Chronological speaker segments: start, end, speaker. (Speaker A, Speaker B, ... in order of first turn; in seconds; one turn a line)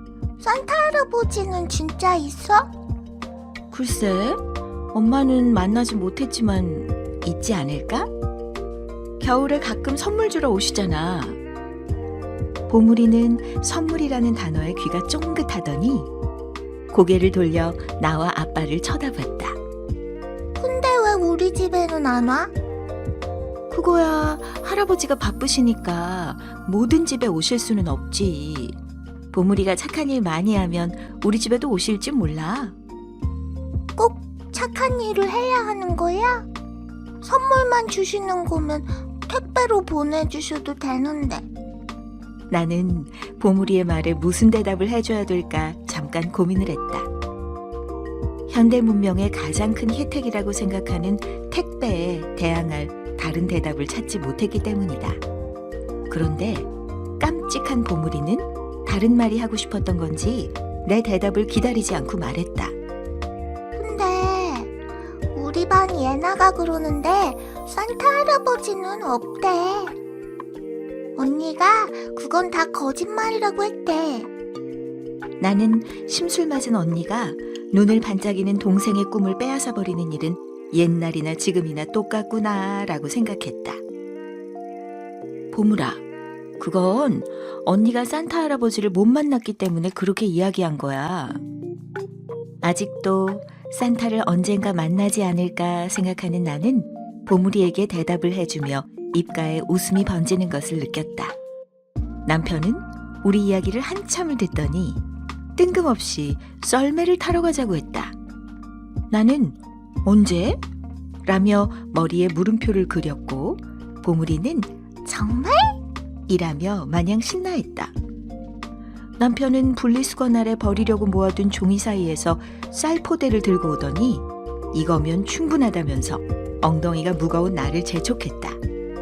Speaker A: 0.4-2.7
Speaker B: 3.7-4.4
Speaker B: 4.9-8.1
Speaker B: 9.2-11.4
Speaker B: 12.7-16.1
Speaker B: 16.9-19.6
Speaker A: 20.6-22.5
Speaker B: 23.7-28.8
Speaker B: 29.3-32.7
Speaker A: 34.0-36.5
Speaker A: 37.2-41.5
Speaker B: 42.5-47.1
Speaker B: 48.5-55.2
Speaker B: 56.1-56.7
Speaker B: 57.2-62.7
Speaker A: 63.8-64.7
Speaker A: 65.3-69.9
Speaker A: 71.2-74.3
Speaker B: 75.4-83.8
Speaker B: 85.5-86.0
Speaker B: 86.6-91.4
Speaker B: 92.6-101.3
Speaker B: 102.2-105.0
Speaker B: 105.6-108.1
Speaker B: 109.1-110.6
Speaker B: 111.2-114.7
Speaker A: 115.0-115.8
Speaker B: 116.3-117.9
Speaker B: 119.2-128.6